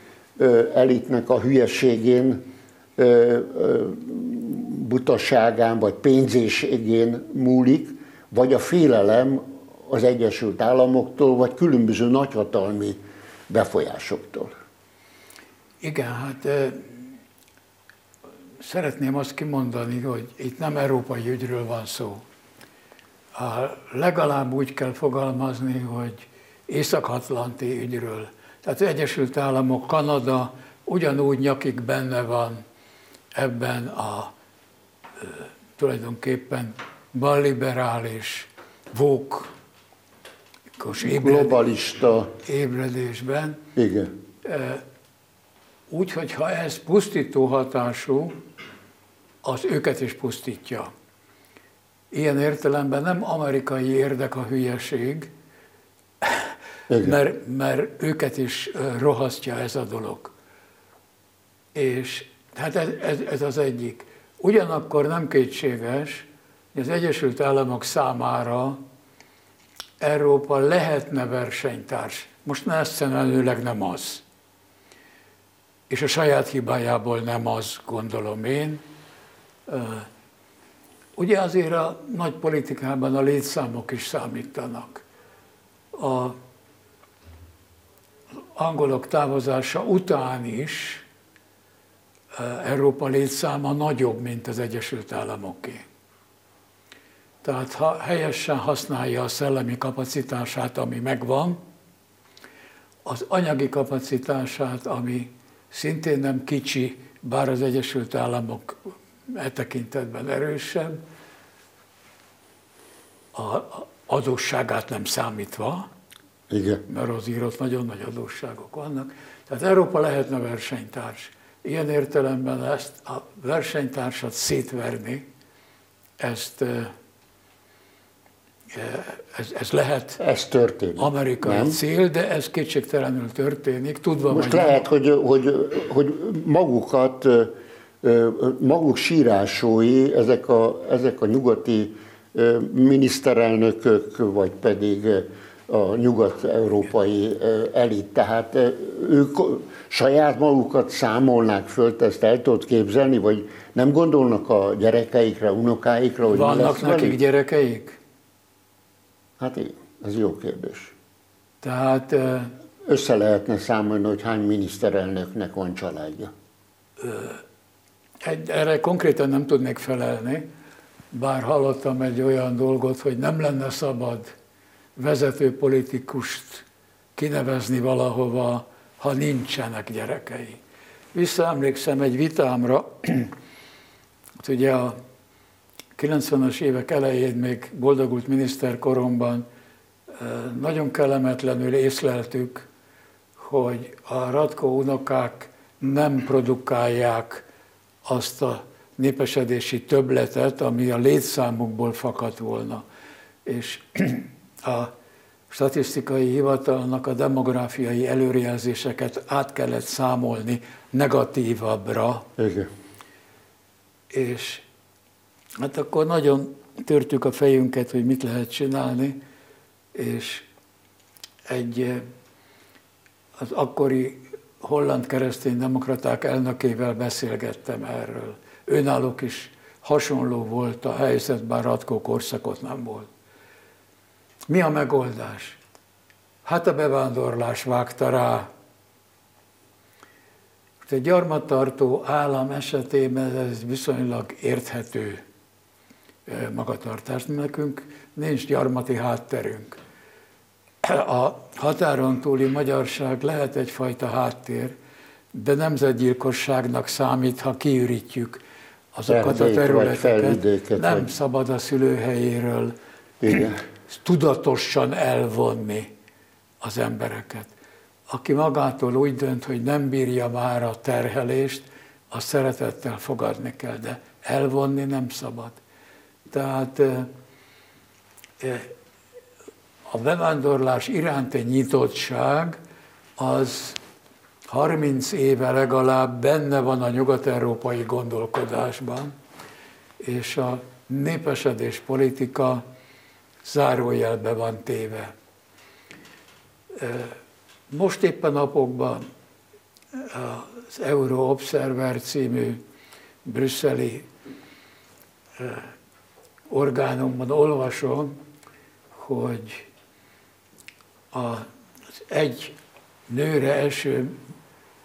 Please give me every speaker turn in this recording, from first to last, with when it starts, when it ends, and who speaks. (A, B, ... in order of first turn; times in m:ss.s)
0:00.4-0:14.5 A
0:15.8-0:17.0 B
0:18.6-0:22.2 B
0:23.4-0:32.6 B
0:33.4-0:34.3 B
0:35.2-0:39.5 B
0:40.8-0:41.6 B
0:41.0-0:42.4 A
0:42.4-0:43.6 B
0:43.8-0:44.1 A
0:44.4-0:44.8 B
0:45.9-0:48.4 B
0:49.4-0:50.9 B
0:52.1-0:55.3 B
0:56.2-1:00.3 B
0:56.9-0:57.2 A
1:01.8-1:08.8 B
1:10.0-1:14.2 B
1:15.9-1:18.8 B
1:19.7-1:20.1 B
1:21.2-1:25.0 B
1:25.9-1:26.4 B
1:28.6-1:31.0 B
1:32.3-1:35.8 B
1:37.4-1:41.6 B
1:43.0-1:51.0 B
1:53.3-1:55.9 B
1:56.5-1:56.8 A
1:56.9-2:05.2 B
2:06.2-2:06.9 B
2:08.7-2:10.2 B
2:10.2-2:11.8 A
2:11.0-2:14.8 B
2:14.3-2:37.2 A
2:36.3-2:38.0 B
2:39.4-2:40.9 A
2:41.6-2:42.5 B
2:42.8-2:46.3 A
2:47.0-2:47.4 B
2:48.2-2:50.5 B
2:51.1-2:54.3 B
2:55.0-2:56.6 B
2:57.2-3:00.6 B
3:01.1-3:03.3 B
3:04.4-3:05.0 B
3:06.0-3:09.5 B
3:10.1-3:12.7 B
3:13.4-3:17.5 B
3:18.0-3:22.8 B
3:23.4-3:24.9 B
3:25.5-3:32.3 B
3:32.4-3:32.7 A
3:34.1-3:34.6 B
3:35.6-3:39.2 B
3:39.9-3:40.4 B
3:41.5-3:42.1 B
3:43.4-3:53.1 B
3:54.5-3:55.6 B
3:56.4-3:58.5 B
4:00.8-4:05.2 B
4:06.3-4:09.8 B
4:10.8-4:14.8 B
4:15.3-4:18.4 B
4:18.9-4:22.8 B
4:19.1-4:21.1 A
4:23.2-4:23.6 A
4:23.9-4:25.9 B
4:26.6-4:27.5 B
4:28.1-4:35.6 B
4:36.3-4:37.1 B
4:38.4-4:38.7 B
4:39.9-4:42.6 B
4:43.2-4:43.8 B
4:44.5-4:49.1 B
4:50.0-4:52.6 B
4:53.4-4:55.1 B
4:56.7-4:57.2 B
4:57.7-4:59.0 B
4:59.9-5:02.6 B
5:03.2-5:04.1 B
5:05.4-5:05.7 B
5:06.5-5:08.2 B
5:08.9-5:09.7 B
5:11.1-5:11.5 B
5:12.1-5:12.6 B
5:13.1-5:14.2 B